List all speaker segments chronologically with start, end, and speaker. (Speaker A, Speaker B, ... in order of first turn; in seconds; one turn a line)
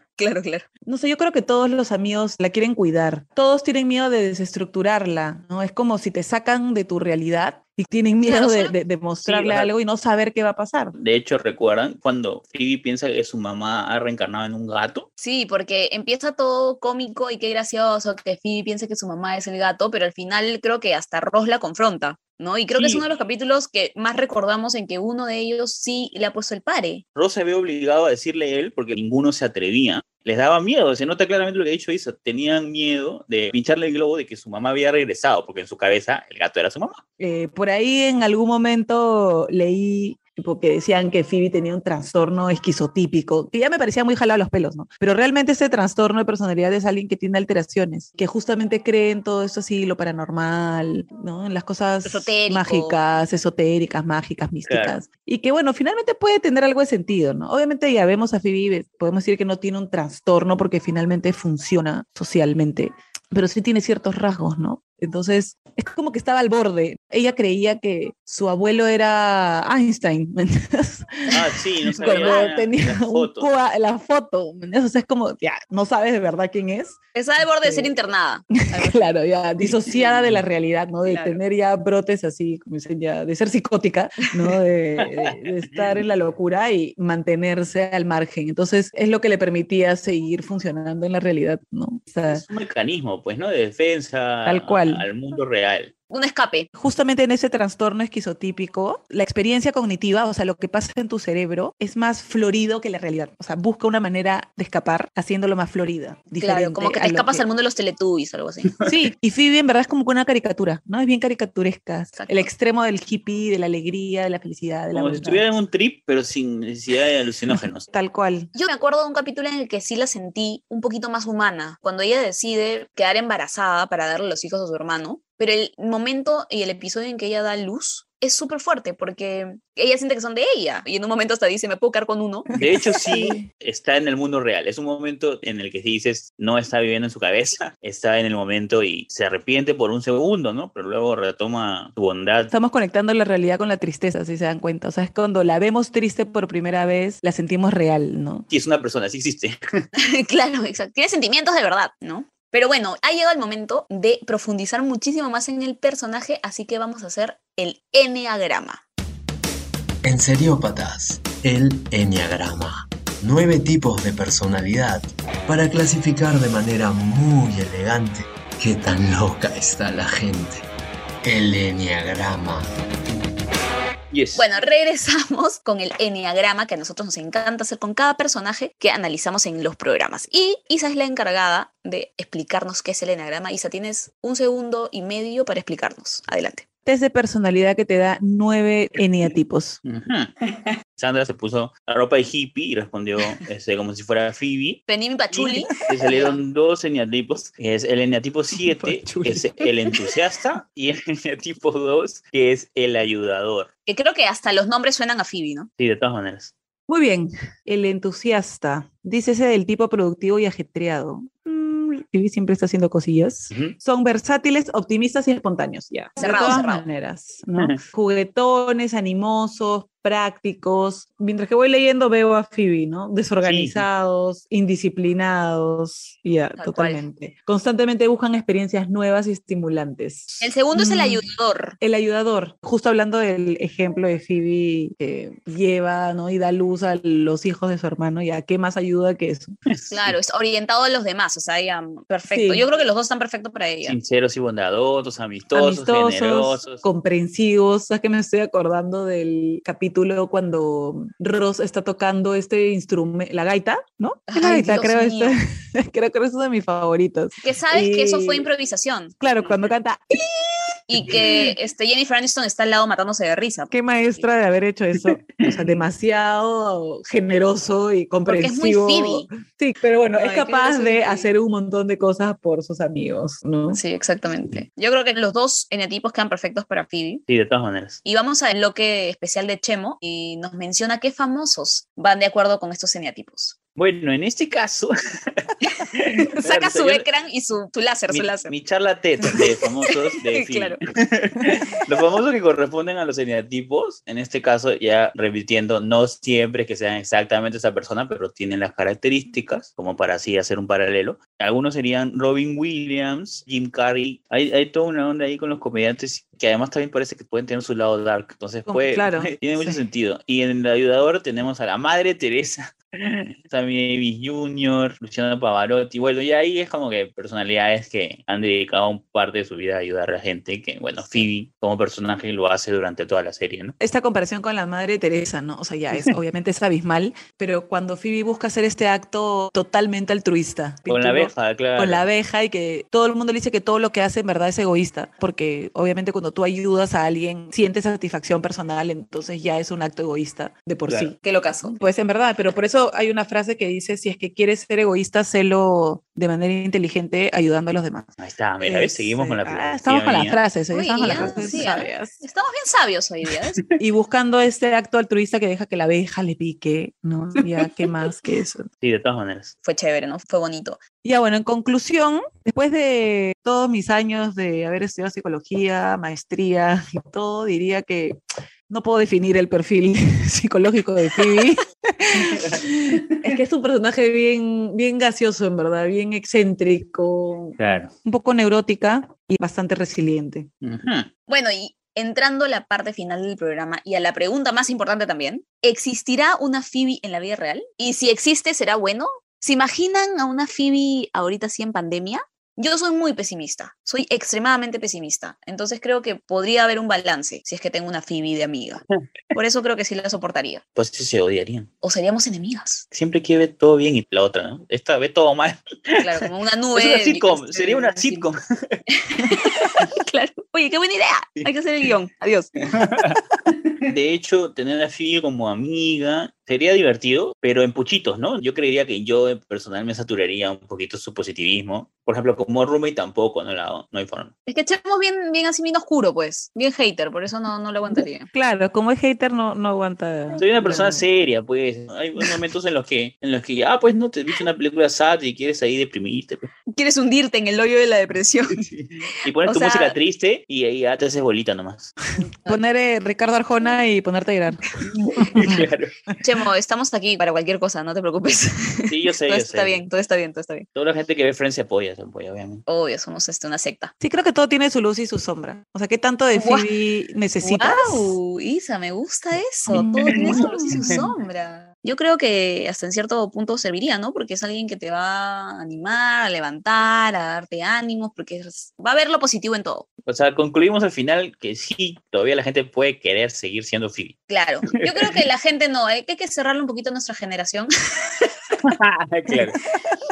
Speaker A: 0.2-0.7
Speaker B: 0.8-10.9
Speaker A: 8.2-8.7
Speaker C: 9.2-9.7
Speaker C: 11.0-15.1
Speaker A: 15.2-27.0
Speaker C: 22.7-23.0
Speaker C: 27.1-37.0
Speaker B: 37.2-77.0
Speaker A: 52.0-53.0
Speaker C: 54.6-55.0
Speaker C: 71.3-73.5
Speaker A: 72.0-72.5
Speaker A: 77.1-79.1
Speaker B: 77.5-77.9
Speaker B: 78.7-92.4
Speaker C: 79.6-80.4
Speaker A: 81.0-81.4
Speaker C: 92.3-95.9
Speaker B: 94.4-95.1
Speaker A: 96.1-96.7
Speaker B: 96.8-107.5
Speaker A: 106.4-108.7
Speaker B: 108.8-115.4
Speaker A: 112.1-112.5
Speaker C: 114.9-117.9
Speaker B: 117.9-118.5
Speaker A: 118.5-132.5
Speaker B: 132.5-133.4
Speaker C: 132.5-142.5
Speaker B: 142.5-148.5
Speaker C: 148.5-149.6
Speaker A: 150.0-158.8
Speaker D: 160.0-170.6
Speaker D: 171.2-172.7
Speaker C: 174.1-174.4
Speaker A: 174.3-186.6
Speaker B: 186.8-189.8
Speaker C: 189.8-190.3
Speaker C: 190.9-194.8
Speaker A: 194.9-196.4
Speaker C: 195.3-203.7
Speaker B: 198.5-199.6
Speaker A: 203.8-205.7
Speaker C: 205.8-206.5
Speaker B: 206.9-231.2
Speaker A: 216.2-216.8
Speaker C: 223.4-223.8
Speaker A: 226.6-227.0
Speaker A: 230.4-231.8
Speaker B: 231.8-239.5
Speaker C: 239.7-240.1
Speaker A: 239.9-244.0
Speaker B: 242.3-242.7
Speaker C: 243.8-246.8
Speaker B: 245.5-258.5
Speaker A: 254.3-255.4
Speaker A: 257.4-259.7
Speaker B: 259.2-261.5
Speaker A: 260.9-264.3
Speaker B: 263.7-273.8
Speaker C: 265.1-265.6
Speaker A: 268.3-269.3
Speaker A: 270.1-271.3
Speaker A: 273.7-277.2
Speaker C: 277.3-278.0
Speaker A: 278.0-283.5
Speaker C: 283.8-287.1
Speaker A: 286.0-288.5
Speaker C: 288.1-323.7
Speaker A: 289.2-290.8
Speaker B: 308.7-309.8
Speaker A: 321.0-321.3
Speaker B: 323.8-352.1
Speaker C: 330.9-332.1
Speaker A: 341.2-341.7
Speaker C: 348.2-350.4
Speaker A: 350.7-353.6
Speaker C: 351.0-351.7
Speaker B: 353.8-358.7
Speaker C: 358.8-359.5
Speaker A: 359.6-360.8
Speaker B: 361.0-368.2
Speaker B: 368.7-380.5
Speaker C: 372.3-372.6
Speaker C: 377.6-377.9
Speaker C: 380.6-381.1
Speaker A: 381.3-400.6
Speaker C: 400.8-401.7
Speaker A: 401.8-402.9
Speaker C: 402.9-406.1
Speaker A: 406.0-408.3
Speaker C: 406.7-408.8
Speaker A: 409.0-412.5
Speaker C: 412.7-413.2
Speaker C: 413.9-424.3
Speaker A: 424.5-428.3
Speaker B: 427.9-431.0
Speaker C: 430.4-436.5
Speaker A: 436.7-438.7
Speaker C: 438.6-441.9
Speaker A: 439.4-439.9
Speaker B: 442.4-444.8
Speaker C: 444.9-445.9
Speaker B: 445.4-445.6
Speaker A: 446.2-450.7
Speaker C: 448.9-449.8
Speaker C: 450.7-452.6
Speaker A: 452.7-453.9
Speaker B: 454.0-458.2
Speaker A: 456.3-456.7
Speaker A: 457.4-469.9
Speaker B: 459.7-460.9
Speaker C: 460.1-461.1
Speaker C: 470.1-474.1
Speaker A: 474.3-478.3
Speaker C: 474.7-475.2
Speaker C: 478.7-479.6